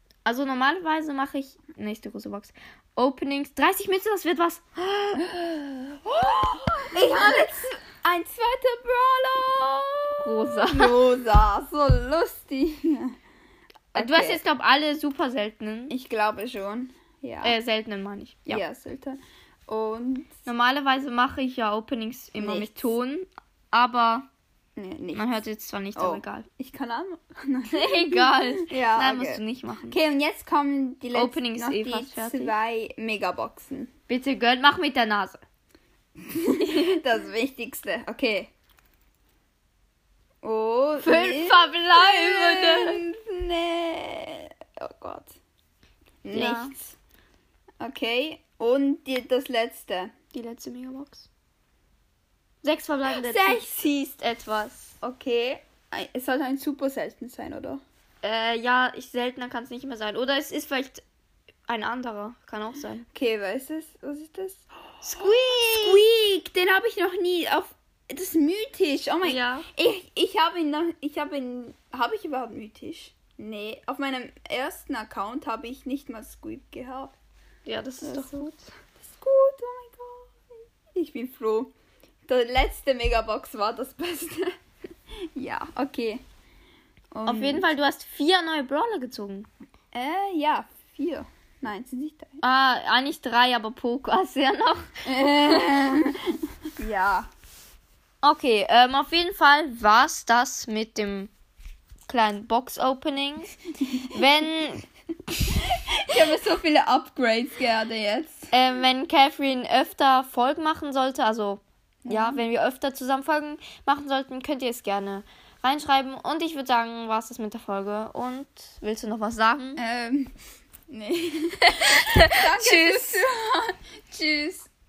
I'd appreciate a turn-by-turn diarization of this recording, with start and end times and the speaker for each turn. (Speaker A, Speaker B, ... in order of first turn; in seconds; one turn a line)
Speaker A: 0.2-7.4
Speaker B: 6.8-13.1
Speaker A: 10.2-11.0
Speaker B: 13.9-14.4
Speaker A: 13.9-15.9
Speaker B: 15.9-17.6
Speaker A: 17.4-18.6
Speaker B: 18.4-20.3
Speaker A: 20.4-24.2
Speaker B: 22.4-22.9
Speaker B: 24.8-25.4
Speaker A: 25.1-26.5
Speaker B: 25.9-33.9
Speaker A: 27.7-30.0
Speaker A: 31.1-32.5
Speaker A: 34.1-35.4
Speaker B: 36.3-38.5
Speaker A: 36.7-36.9
Speaker B: 40.4-45.4
Speaker A: 41.0-43.0
Speaker B: 46.2-46.9
Speaker A: 46.3-46.7
Speaker B: 47.8-50.1
Speaker A: 50.3-51.3
Speaker A: 52.6-54.9
Speaker B: 53.1-54.0
Speaker B: 55.0-57.8
Speaker A: 58.2-61.0
Speaker A: 61.7-63.0
Speaker B: 63.1-77.1
Speaker A: 65.0-66.1
Speaker A: 69.2-69.7
Speaker A: 77.6-78.6
Speaker B: 78.0-81.7
Speaker B: 82.3-84.5
Speaker B: 85.3-86.2
Speaker B: 87.1-87.7
Speaker A: 87.2-89.5
Speaker B: 89.9-92.4
Speaker A: 92.4-94.9
Speaker B: 95.0-96.2
Speaker B: 96.8-97.3
Speaker A: 98.2-101.3
Speaker A: 102.1-104.8
Speaker B: 105.7-108.5
Speaker A: 108.5-119.8
Speaker B: 112.0-112.4
Speaker B: 119.8-120.3
Speaker B: 120.9-124.7
Speaker A: 121.7-123.2